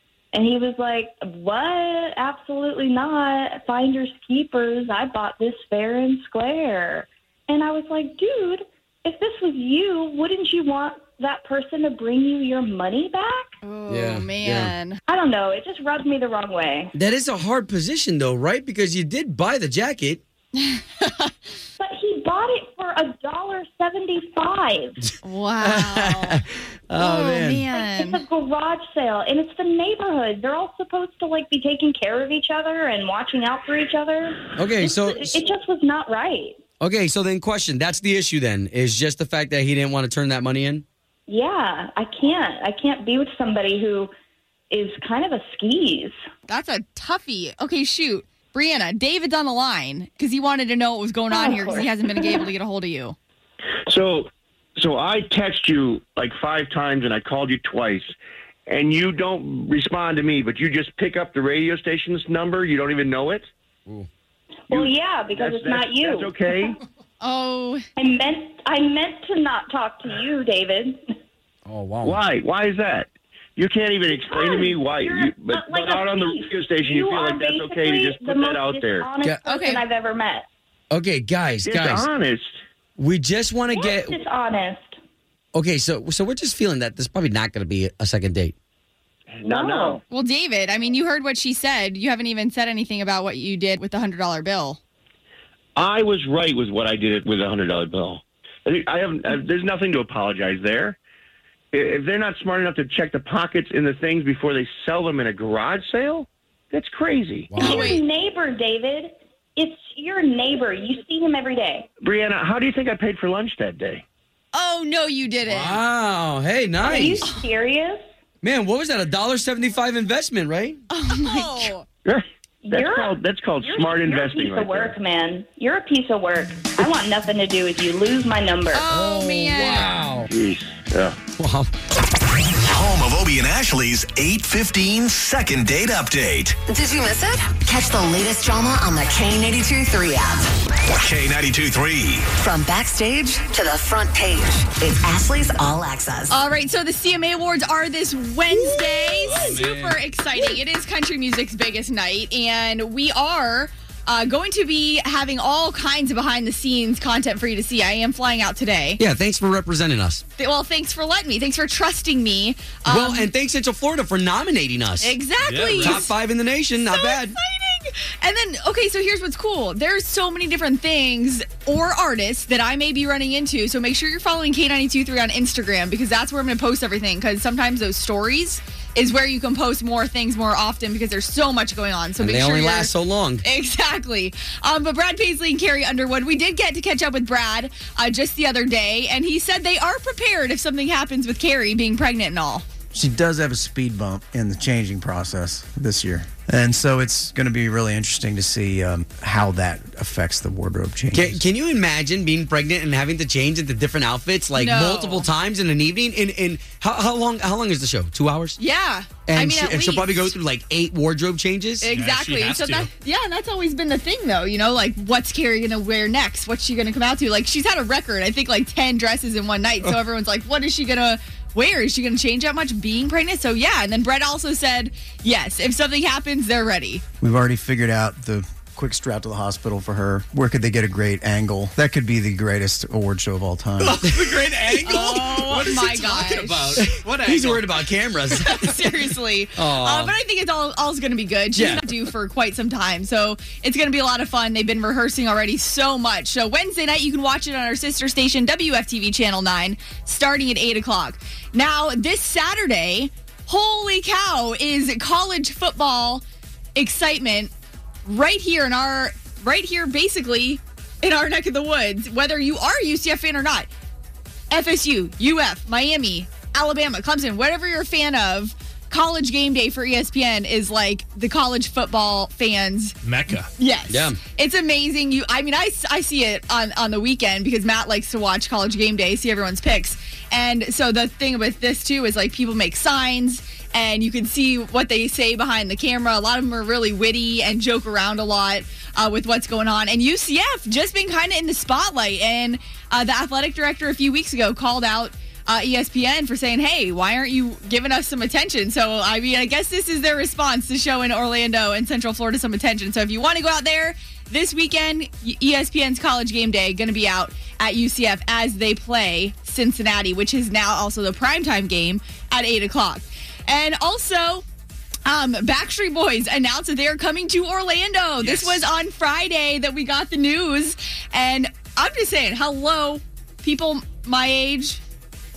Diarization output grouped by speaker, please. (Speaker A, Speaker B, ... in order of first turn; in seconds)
Speaker A: 0.3-13.5, 15.1-16.9, 21.8-25.0, 27.7-36.6, 41.3-44.1, 44.7-46.1, 51.3-52.3, 64.7-66.6, 68.0-71.0, 74.1-80.5, 83.7-85.0, 89.4-90.0, 107.6-111.9, 116.8-118.0, 122.6-128.8
Speaker B: 13.6-15.0, 20.6-21.3, 25.2-26.4, 26.9-28.2, 46.5-53.1, 67.2-67.8, 79.4-79.8, 90.1-94.8, 107.6-108.0, 114.5-115.8, 120.9-121.8, 128.7-129.9, 146.3-159.0, 160.4-163.3, 165.0-166.1, 166.8-192.6, 204.6-205.3, 208.6-210.3, 211.8-227.0, 234.7-236.9, 238.3-256.2, 256.7-257.5, 258.0-263.7, 264.5-272.9, 273.6-314.4, 315.1-324.8
Speaker C: 13.9-14.7, 16.9-20.2, 25.6-27.7, 34.5-35.4, 36.8-40.8, 71.7-72.2, 80.9-82.1, 83.0-84.2, 85.5-88.5, 107.5-108.0, 115.4-117.3, 118.4-120.8, 128.9-130.3, 131.4-131.7, 148.8-150.0, 159.0-160.2, 162.9-165.2, 165.7-167.3, 182.2-183.4, 201.1-208.6, 209.3-211.9, 234.2-235.0, 236.8-240.2, 241.5-242.0, 273.9-274.2
Speaker D: 53.9-58.1, 58.7-63.5, 64.7-66.7, 72.0-79.1, 81.6-82.5, 89.3-90.0, 95.8-101.0, 101.7-107.5, 112.0-114.0, 122.0-124.9, 130.3-131.2
Speaker E: 132.7-136.5, 141.1-142.2
Speaker F: 136.7-141.1, 142.3-146.3
Speaker G: 149.4-149.8, 165.4-166.0, 211.9-212.9, 233.8-237.8, 273.0-273.5, 318.2-318.7
Speaker H: 192.9-201.4, 227.2-234.0